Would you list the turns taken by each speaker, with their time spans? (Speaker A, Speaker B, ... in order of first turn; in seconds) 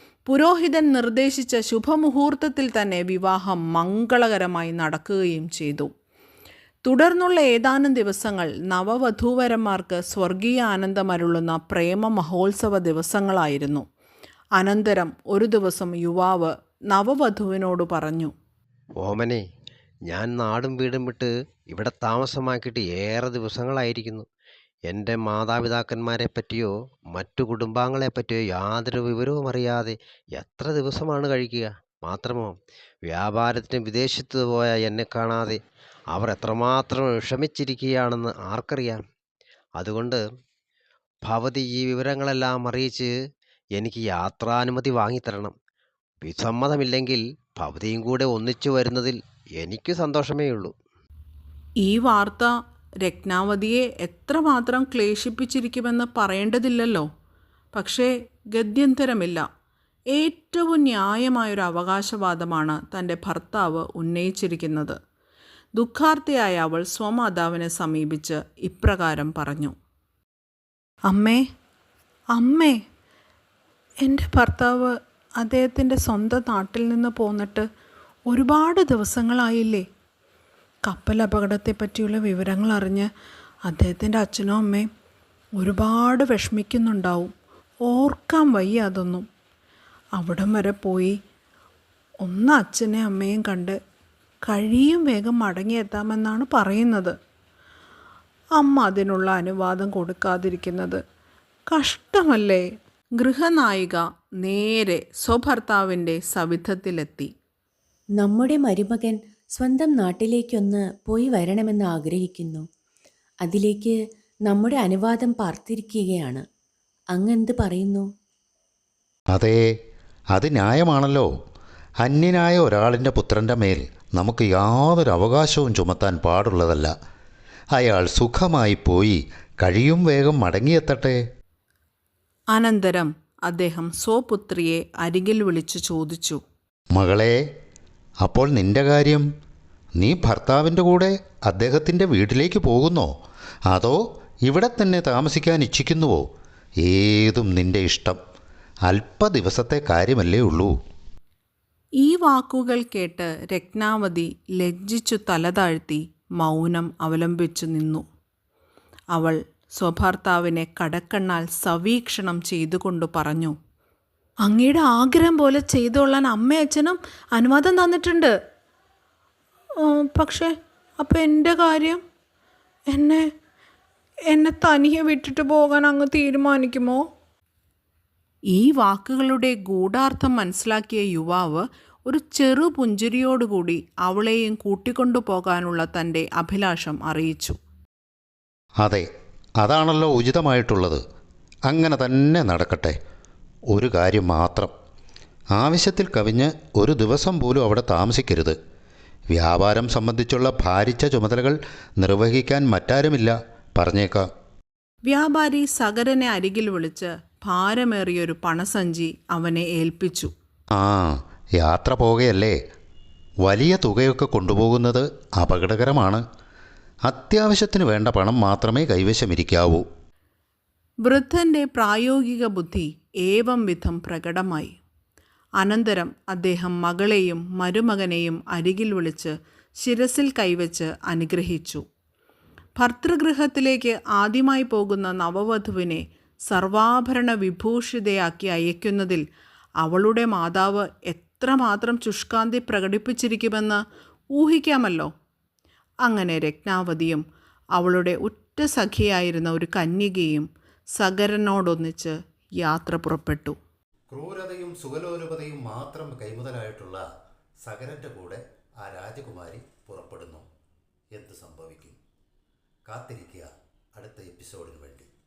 Speaker A: 0.3-5.9, 6.8-13.8, 14.6-18.3, 51.8-57.1, 57.7-59.4, 60.1-65.0, 65.8-69.7, 71.1-71.4, 72.3-72.8, 74.0-77.7, 78.3-79.8, 80.8-83.1, 83.6-84.9, 85.6-87.3, 87.8-89.3, 90.2-91.2, 92.2-93.8, 94.4-97.1, 98.6-101.0, 101.7-102.7, 103.2-107.3, 132.5-136.4, 152.0-158.0, 159.1-163.5, 164.4-168.3, 169.8-172.0, 172.9-173.3, 174.3-177.0, 178.5-187.6, 205.1-210.3, 221.0-224.7, 225.6-231.8, 232.8-239.2, 239.8-243.8, 244.3-245.1, 246.0-247.2, 247.8-253.6
Speaker B: 19.0-19.4, 20.1-24.2, 24.9-32.5, 33.1-35.6, 36.1-39.0, 39.8-40.2, 41.2-43.1, 43.8-45.5, 46.2-50.7
Speaker C: 108.2-112.6, 113.4-116.4, 117.1-118.1
Speaker D: 119.3-119.6, 120.3-121.3, 122.0-126.9, 127.7-131.2, 136.9-137.4, 138.2-139.2, 140.0-143.1, 143.7-146.3, 146.8-148.2, 148.8-150.7, 188.8-189.1, 189.6-191.0, 191.7-192.9, 193.7-194.7, 195.6-198.6, 199.3-204.3, 210.8-212.6, 213.4-216.2, 217.1-219.8, 254.1-257.0, 257.6-260.4, 261.1-262.0, 262.9-265.1